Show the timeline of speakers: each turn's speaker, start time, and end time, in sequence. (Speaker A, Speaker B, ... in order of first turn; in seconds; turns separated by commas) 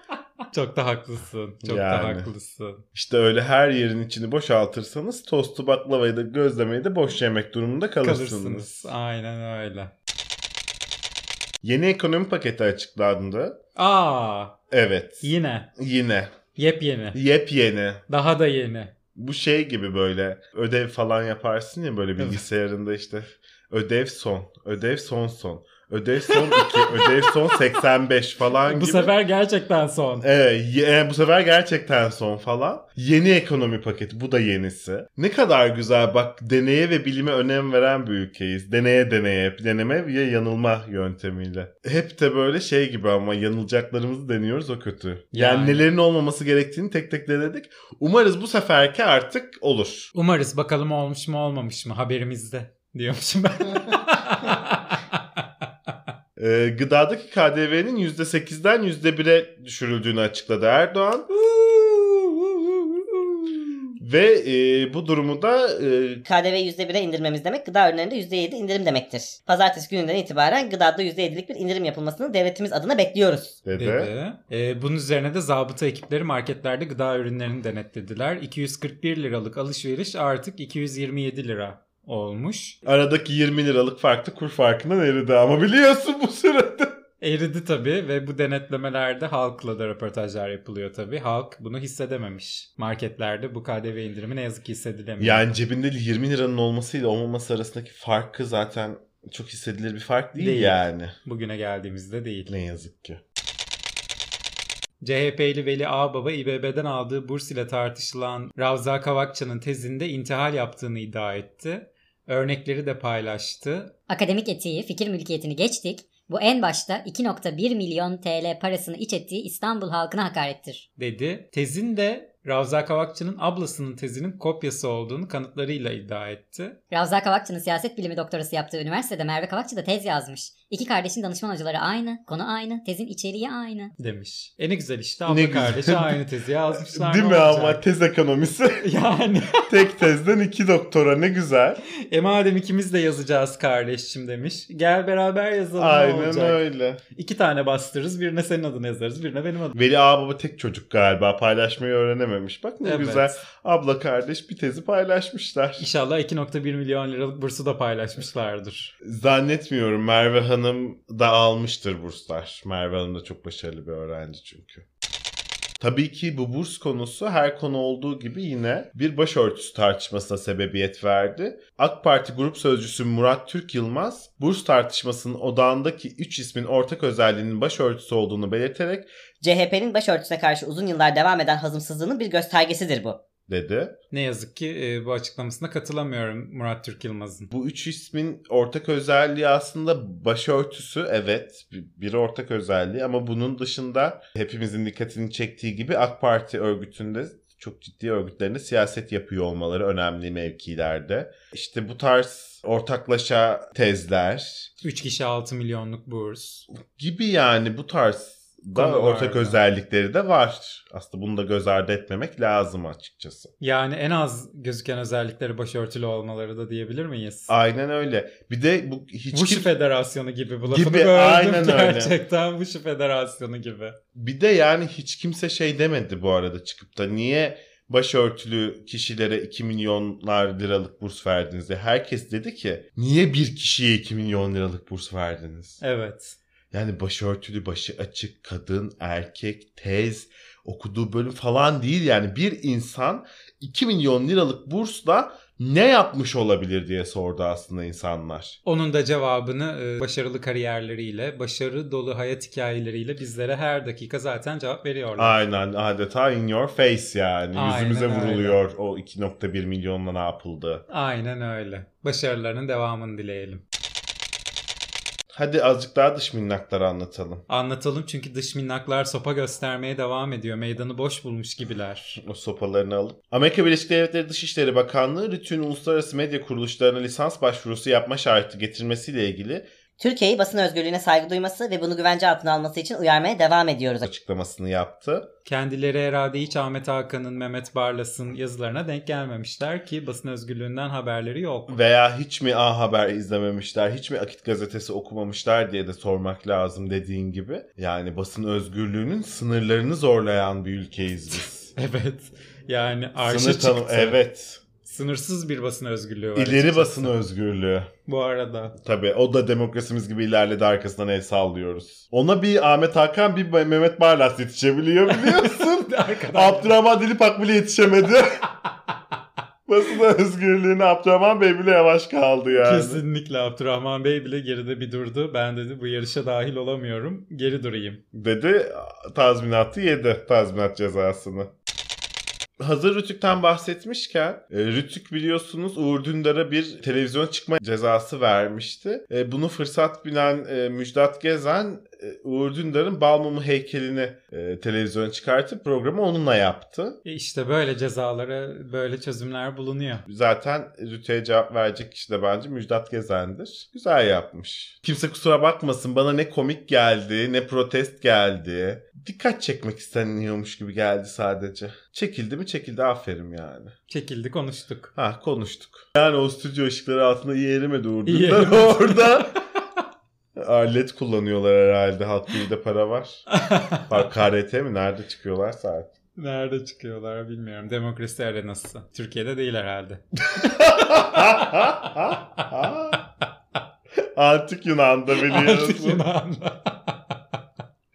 Speaker A: 0.5-2.8, Speaker B: 1.6-2.3, Speaker B: 2.9-8.9, Speaker A: 8.0-9.9, Speaker B: 11.6-13.6, Speaker A: 13.8-14.6, Speaker B: 14.7-16.3, Speaker A: 15.2-15.7, Speaker A: 16.6-17.2, Speaker B: 17.1-18.0, Speaker A: 18.1-18.9, Speaker B: 19.1-29.1, Speaker A: 26.3-27.5, Speaker A: 28.6-30.2, Speaker B: 30.2-50.1, Speaker A: 45.3-45.9, Speaker A: 50.1-55.2, Speaker B: 56.4-61.3, Speaker A: 61.4-63.9, Speaker B: 64.0-66.2, Speaker C: 66.2-73.6, Speaker B: 73.6-74.1, Speaker A: 73.8-82.8, Speaker B: 82.8-87.0, Speaker A: 87.2-95.5, Speaker B: 95.2-101.1, Speaker A: 100.4-102.5, Speaker B: 102.5-103.2, Speaker A: 105.0-113.9, Speaker D: 114.1-120.8, Speaker A: 121.0-126.8, Speaker D: 126.9-133.9, Speaker A: 134.0-137.8, Speaker B: 135.3-136.2, Speaker B: 136.7-138.9, Speaker A: 138.8-139.7, Speaker B: 139.6-141.8, Speaker A: 142.1-146.6, Speaker B: 145.8-147.0, Speaker A: 147.1-149.7, Speaker B: 149.7-155.9, Speaker A: 152.8-153.4, Speaker A: 155.8-158.9, Speaker B: 159.0-164.8, Speaker B: 165.8-179.1, Speaker C: 179.4-183.2, Speaker B: 183.5-183.9, Speaker A: 184.1-187.5, Speaker B: 187.5-204.7, Speaker A: 204.8-206.7, Speaker B: 206.9-213.5, Speaker A: 208.7-209.6, Speaker A: 213.6-217.5, Speaker B: 217.5-219.7, Speaker A: 219.3-224.0, Speaker B: 220.7-222.1, Speaker B: 224.1-235.8, Speaker A: 235.8-236.4, Speaker B: 236.7-248.6, Speaker A: 248.7-255.4, Speaker B: 255.2-260.8, Speaker A: 257.5-258.6, Speaker A: 260.9-263.6, Speaker B: 265.3-267.4, Speaker A: 267.5-272.2, Speaker B: 272.2-279.6, Speaker C: 280.0-284.0, Speaker B: 284.0-285.3, Speaker A: 285.4-291.8, Speaker B: 291.7-301.7, Speaker A: 301.7-304.2, Speaker B: 303.2-304.6, Speaker A: 304.8-307.1, Speaker B: 306.4-307.9, Speaker A: 308.1-308.7, Speaker B: 308.8-318.5, Speaker A: 315.1-316.7, Speaker B: 319.7-323.0, Speaker A: 322.6-328.0, Speaker B: 328.1-331.5, Speaker B: 332.6-347.0, Speaker A: 347.0-350.0, Speaker B: 350.1-363.7, Speaker A: 363.9-364.9, Speaker B: 364.9-369.4, Speaker A: 368.1-369.4, Speaker B: 370.4-373.2, Speaker A: 373.3-374.0, Speaker B: 373.9-375.9, Speaker A: 376.1-381.7, Speaker B: 380.3-383.0, Speaker B: 384.1-386.0, Speaker A: 385.2-387.1